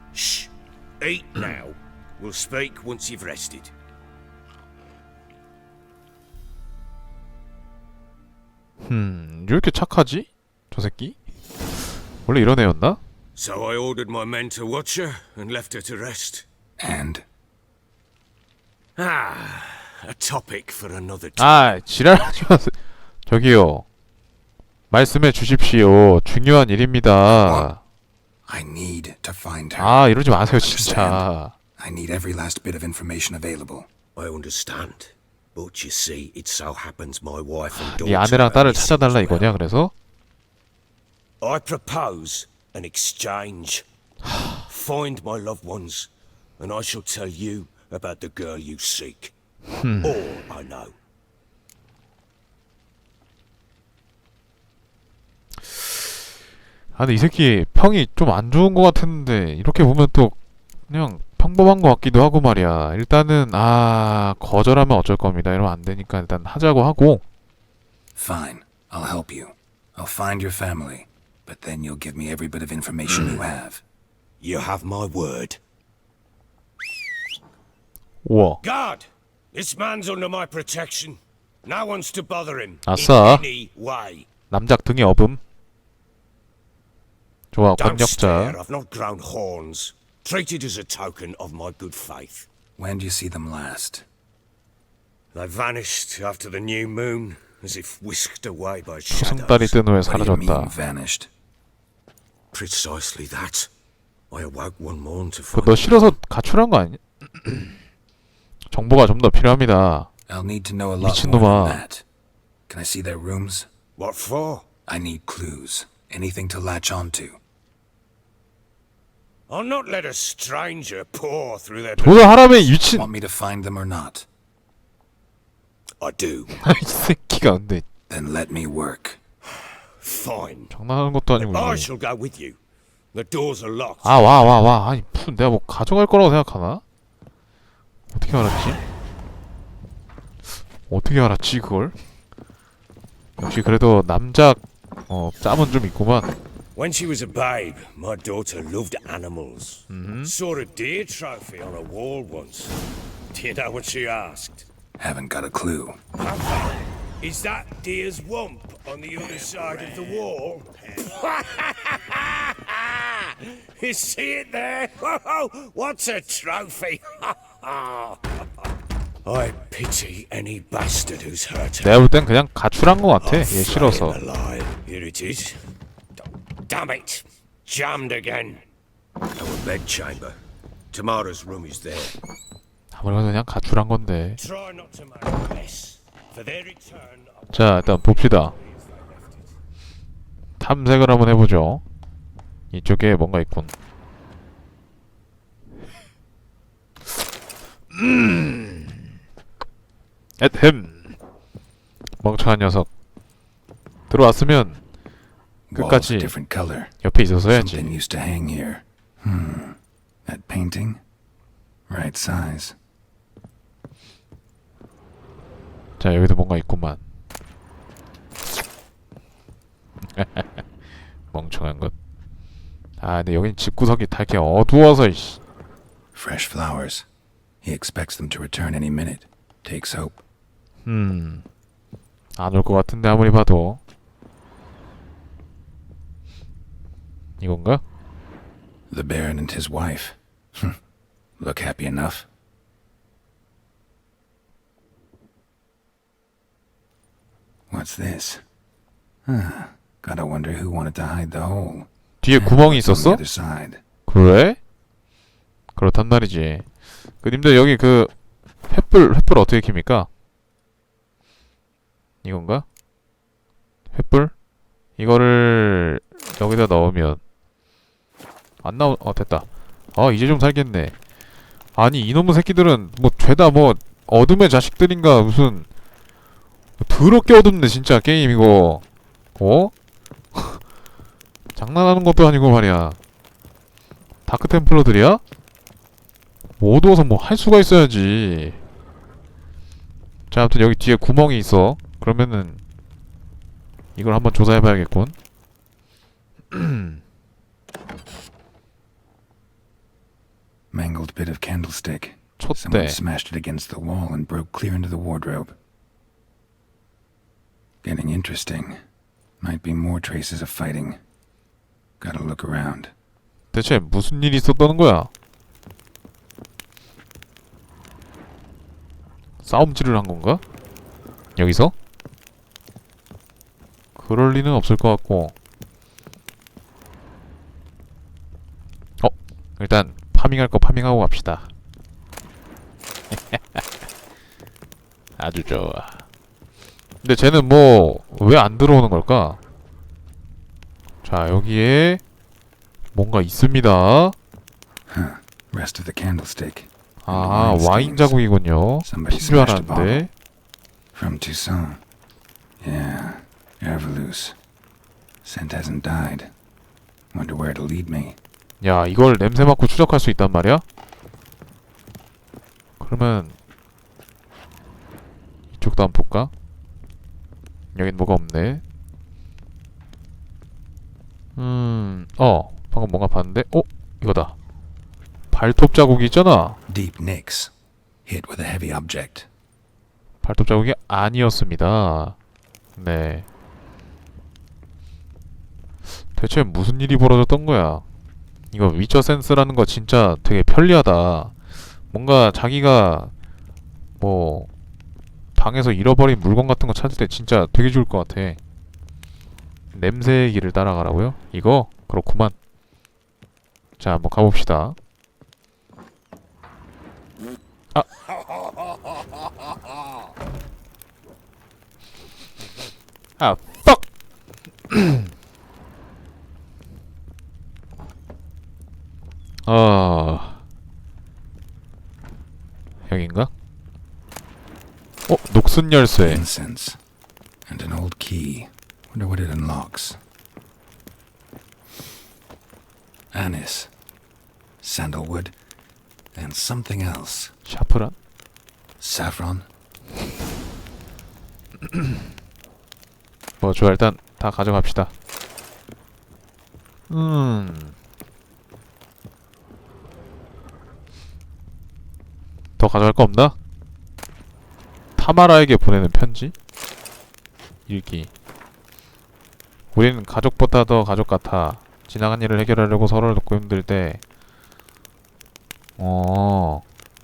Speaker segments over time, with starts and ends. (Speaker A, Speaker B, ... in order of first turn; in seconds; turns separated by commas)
Speaker A: 0.1-3.7, Speaker B: 8.8-11.2, Speaker B: 12.3-13.0, Speaker A: 13.4-16.5, Speaker C: 16.8-17.2, Speaker A: 19.0-21.7, Speaker B: 21.4-23.9, Speaker B: 24.9-27.8, Speaker C: 27.3-27.7, Speaker C: 28.4-30.0, Speaker B: 29.8-31.6, Speaker C: 30.5-31.3, Speaker C: 31.8-33.9, Speaker A: 34.2-39.6, Speaker B: 37.7-39.9, Speaker A: 41.4-43.8, Speaker A: 44.7-49.3, Speaker B: 49.7-50.2, Speaker A: 50.0-51.0, Speaker B: 57.0-60.4, Speaker B: 60.9-67.2, Speaker C: 68.2-73.8, Speaker A: 74.4-75.6, Speaker B: 78.2-78.6, Speaker A: 78.6-84.3, Speaker B: 82.9-83.5, Speaker B: 84.5-85.4, Speaker B: 87.5-88.6, Speaker A: 87.8-92.5, Speaker C: 92.8-94.1, Speaker A: 95.3-99.8, Speaker B: 99.1-100.8, Speaker C: 100.0-101.3, Speaker A: 102.5-103.7, Speaker A: 104.3-106.1, Speaker B: 105.5-107.8, Speaker B: 108.7-110.1, Speaker C: 110.3-112.0, Speaker B: 111.0-111.8, Speaker C: 112.7-113.7, Speaker A: 114.0-114.7, Speaker C: 114.9-117.4, Speaker A: 119.5-122.7, Speaker B: 122.0-123.1, Speaker C: 122.9-124.3, Speaker A: 126.0-126.5, Speaker B: 126.6-127.9, Speaker C: 128.1-129.2, Speaker A: 129.6-130.7, Speaker B: 130.7-131.9, Speaker A: 131.4-132.6, Speaker A: 133.1-134.2, Speaker B: 134.0-136.8, Speaker B: 138.1-138.8, Speaker B: 140.9-141.9, Speaker B: 143.4-146.3, Speaker A: 146.8-152.8, Speaker B: 149.9-150.3, Speaker A: 153.3-154.7, Speaker C: 155.0-156.0, Speaker A: 156.2-168.4, Speaker A: 169.2-172.1, Speaker B: 171.8-174.2, Speaker A: 173.2-175.6, Speaker A: 176.2-178.6, Speaker A: 179.4-180.4, Speaker A: 180.9-182.2, Speaker B: 182.9-184.4, Speaker A: 184.4-188.0, Speaker B: 187.5-188.6, Speaker A: 188.6-189.5, Speaker B: 190.6-191.8, Speaker B: 192.7-193.7, Speaker B: 197.9-199.0, Speaker B: 200.4-201.2, Speaker B: 202.2-202.9, Speaker B: 204.1-204.8, Speaker C: 205.7-206.9, Speaker B: 205.8-206.3, Speaker B: 207.0-208.0, Speaker C: 207.5-211.0, Speaker C: 211.9-212.8, Speaker B: 216.0-217.0, Speaker B: 220.1-220.7, Speaker B: 221.3-221.9, Speaker B: 223.0-225.4, Speaker C: 226.1-227.1, Speaker C: 227.6-230.2, Speaker B: 230.8-231.4, Speaker B: 232.4-233.8, Speaker B: 237.4-237.8, Speaker C: 238.9-240.8, Speaker C: 241.4-242.3, Speaker C: 247.7-248.4, Speaker C: 249.2-253.8, Speaker B: 252.2-253.2, Speaker B: 254.1-254.6, Speaker B: 255.8-256.7, Speaker B: 257.2-258.1, Speaker B: 258.7-260.1, Speaker B: 262.2-262.6, Speaker B: 263.9-264.3, Speaker B: 265.0-267.2, Speaker B: 268.6-270.9, Speaker B: 271.8-275.7, Speaker B: 276.8-278.8, Speaker B: 279.4-279.7, Speaker B: 280.3-280.6, Speaker B: 281.6-283.0, Speaker B: 284.3-285.2, Speaker B: 286.6-288.6, Speaker B: 290.3-292.6, Speaker B: 294.0-295.1, Speaker B: 296.5-297.0, Speaker C: 300.7-305.6, Speaker B: 302.4-303.0, Speaker C: 307.8-308.8, Speaker C: 309.4-311.0, Speaker C: 312.0-312.9, Speaker B: 313.5-315.1, Speaker B: 319.4-320.4, Speaker B: 321.4-321.7, Speaker B: 324.0-325.3, Speaker B: 329.0-331.5, Speaker B: 333.1-333.6, Speaker B: 335.2-336.0, Speaker B: 337.0-339.4, Speaker B: 341.0-342.0, Speaker B: 342.9-344.2, Speaker C: 344.9-348.2, Speaker B: 347.0-350.1, Speaker C: 348.8-350.1, Speaker C: 350.9-351.8, Speaker C: 352.6-354.4, Speaker C: 355.2-356.3, Speaker C: 357.1-358.2, Speaker B: 358.6-360.6, Speaker B: 362.8-363.4, Speaker B: 365.5-366.3, Speaker B: 367.8-368.6, Speaker B: 371.4-374.4, Speaker B: 375.3-376.6, Speaker C: 376.7-377.5, Speaker C: 378.1-379.3, Speaker B: 380.2-382.2, Speaker B: 382.8-383.3, Speaker B: 386.1-387.8, Speaker B: 388.5-391.4, Speaker B: 391.9-393.1, Speaker B: 394.0-394.5, Speaker B: 395.4-398.4, Speaker B: 399.7-402.4, Speaker B: 403.8-404.8, Speaker B: 413.2-413.8, Speaker B: 414.7-415.1, Speaker B: 419.5-420.4, Speaker B: 422.9-423.3, Speaker B: 425.1-426.2, Speaker C: 426.0-426.8, Speaker C: 427.5-430.0, Speaker C: 433.1-433.7, Speaker C: 434.6-435.3, Speaker C: 436.1-437.3, Speaker B: 437.5-438.0, Speaker C: 438.8-439.5, Speaker B: 443.4-444.9, Speaker B: 446.9-447.8, Speaker B: 452.6-453.4, Speaker B: 455.0-456.3, Speaker B: 457.7-458.1, Speaker B: 459.7-464.0, Speaker B: 465.8-466.6